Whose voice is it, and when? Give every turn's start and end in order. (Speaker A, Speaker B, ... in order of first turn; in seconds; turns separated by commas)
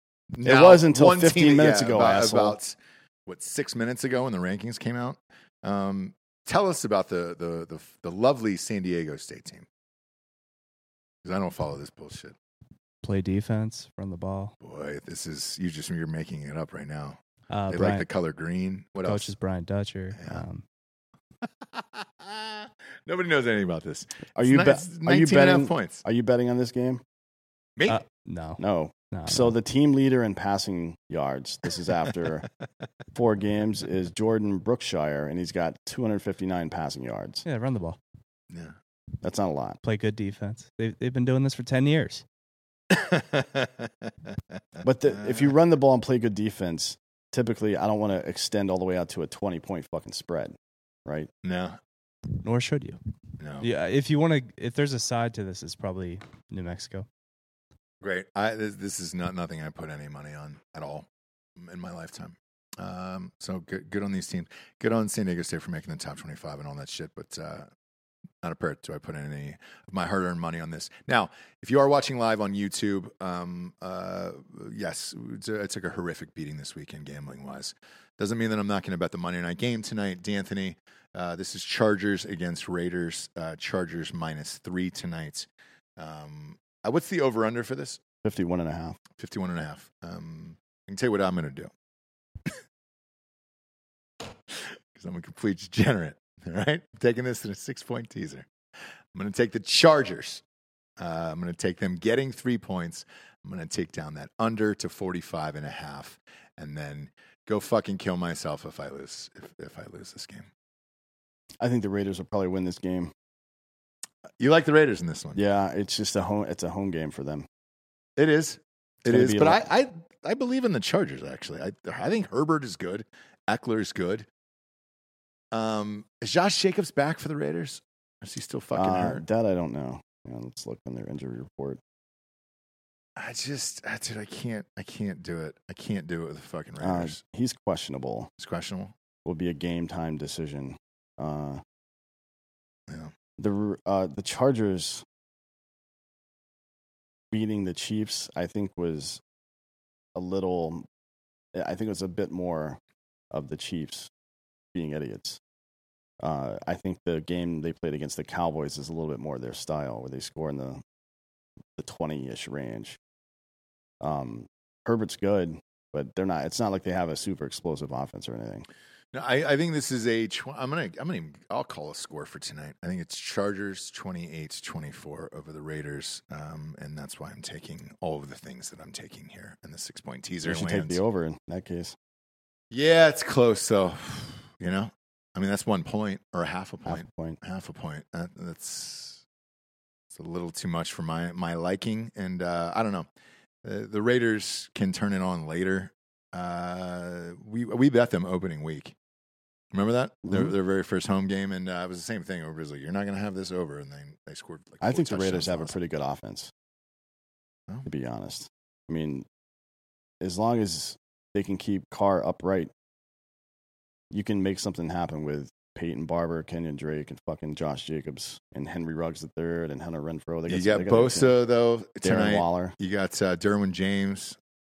Speaker A: 0.3-9.7, Speaker B: 0.4-2.6, Speaker A: 11.2-12.3, Speaker C: 13.0-14.5, Speaker A: 14.6-17.2, Speaker C: 17.5-18.1, Speaker A: 17.7-19.3, Speaker C: 19.0-20.6, Speaker A: 20.2-20.4, Speaker A: 21.7-26.0, Speaker B: 24.4-27.0, Speaker C: 27.9-29.5, Speaker B: 28.6-32.5, Speaker B: 33.1-37.4, Speaker C: 37.4-38.0, Speaker A: 38.5-38.8, Speaker B: 39.2-39.8, Speaker C: 39.8-42.2, Speaker A: 42.9-44.1, Speaker B: 44.8-51.3, Speaker A: 51.4-51.8, Speaker C: 52.4-53.0, Speaker A: 53.4-53.7, Speaker C: 53.6-57.1, Speaker A: 58.0-67.7, Speaker A: 68.4-88.0, Speaker B: 88.2-89.0, Speaker A: 89.2-91.7, Speaker A: 94.5-98.5, Speaker A: 99.1-100.4, Speaker A: 101.0-110.5, Speaker B: 111.6-113.1, Speaker A: 114.4-115.4, Speaker B: 115.3-117.5, Speaker A: 118.2-124.2, Speaker B: 119.1-119.6, Speaker A: 125.5-129.2, Speaker B: 128.7-131.8, Speaker A: 133.2-137.2, Speaker B: 136.8-138.3, Speaker A: 138.4-138.9, Speaker B: 139.2-141.6, Speaker B: 143.4-145.0, Speaker B: 147.3-149.2, Speaker B: 150.1-150.8, Speaker B: 151.5-152.8, Speaker B: 153.3-154.1, Speaker B: 154.7-155.4, Speaker B: 156.2-160.8, Speaker B: 161.8-163.0, Speaker B: 164.0-168.7, Speaker A: 169.1-181.0, Speaker B: 180.4-181.9, Speaker A: 182.7-189.2, Speaker B: 186.8-187.4, Speaker A: 190.1-193.1, Speaker A: 193.6-198.9, Speaker A: 199.7-205.7, Speaker B: 200.2-200.5, Speaker B: 204.8-206.5, Speaker B: 207.8-209.2, Speaker B: 210.2-212.7, Speaker B: 214.1-221.3, Speaker A: 220.5-224.4, Speaker B: 222.0-222.8